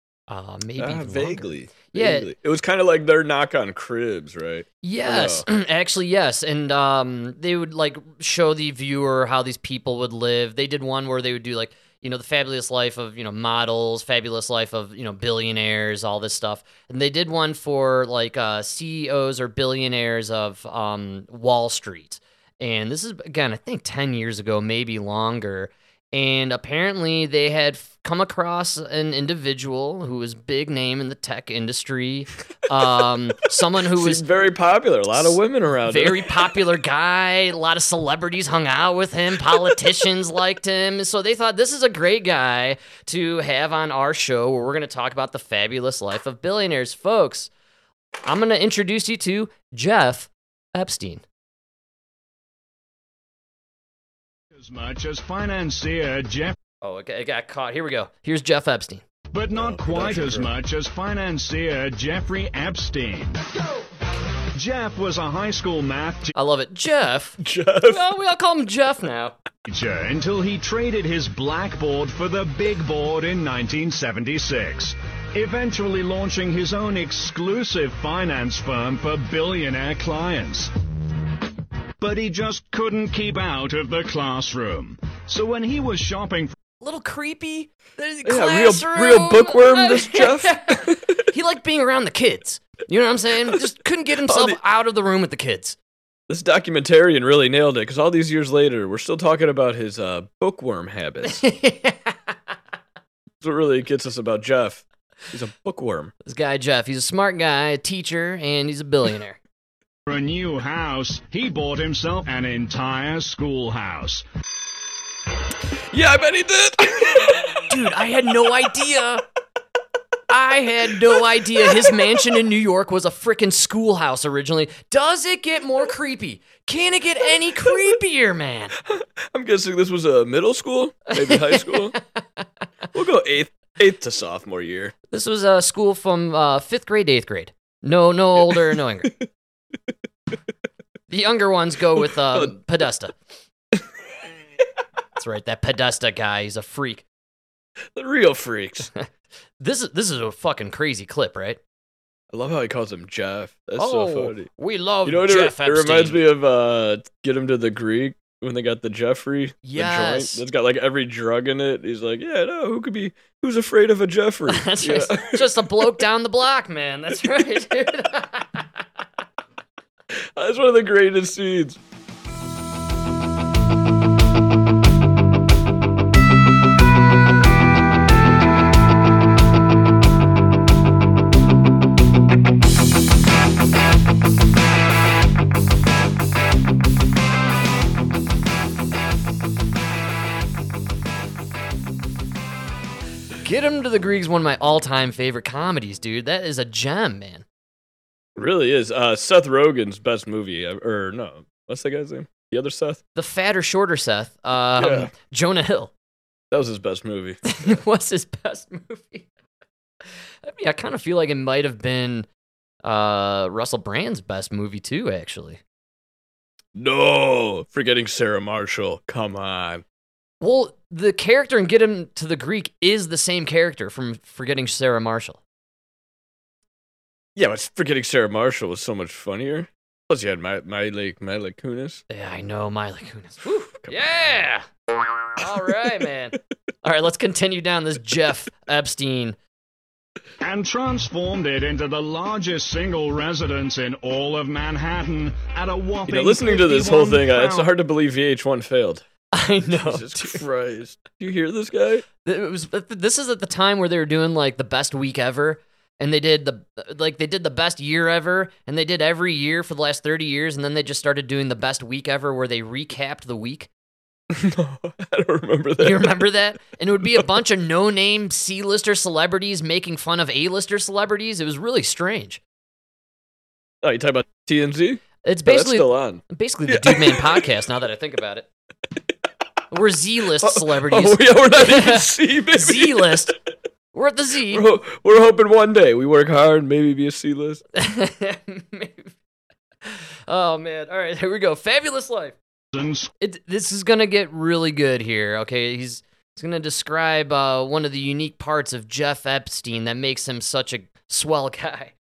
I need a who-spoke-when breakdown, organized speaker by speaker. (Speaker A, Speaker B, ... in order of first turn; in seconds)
Speaker A: 0.3-2.3, 4.8-34.2, 35.1-47.5, 48.2-51.2, 56.8-59.0, 66.3-69.3, 86.8-95.8, 101.2-102.3, 106.2-109.4, 117.7-119.2, 120.3-128.7, 131.1-132.4, 135.1-139.1, 141.1-143.2, 145.2-147.0, 149.6-151.6, 153.8-156.2, 159.6-160.4, 164.5-168.6, 193.4-197.4, 203.2-205.9, 207.4-209.3, 210.4-212.3, 212.8-215.6, 220.4-225.4, 232.1-234.7, 235.4-239.4, 249.3-250.4, 252.2-263.7, 265.8-272.4, 275.2-278.5, 279.7-283.4, 283.9-284.7, 287.8-289.1, 289.9-292.4, 293.2-301.9
Speaker B: 0.8-5.5, 33.9-36.3, 59.5-60.5, 67.4-68.0, 88.2-91.2, 94.2-94.6, 96.3-101.4, 103.4-106.1, 115.9-117.9, 121.1-122.0, 128.8-132.0, 132.9-134.9, 138.5-139.1, 142.0-142.6, 147.9-148.9, 152.3-154.5, 155.1-166.0, 170.2-171.8, 198.4-203.0, 204.8-205.1, 206.5-207.8, 216.8-219.8, 227.4-232.0, 233.8-234.4, 246.1-249.1, 249.7-252.1, 264.3-266.2, 273.8-277.5, 280.4-283.4, 284.5-287.6
Speaker C: 54.5-56.6, 59.3-63.5, 64.5-66.3, 69.7-80.7, 82.0-86.5, 110.1-114.2, 240.4-247.7, 292.7-293.1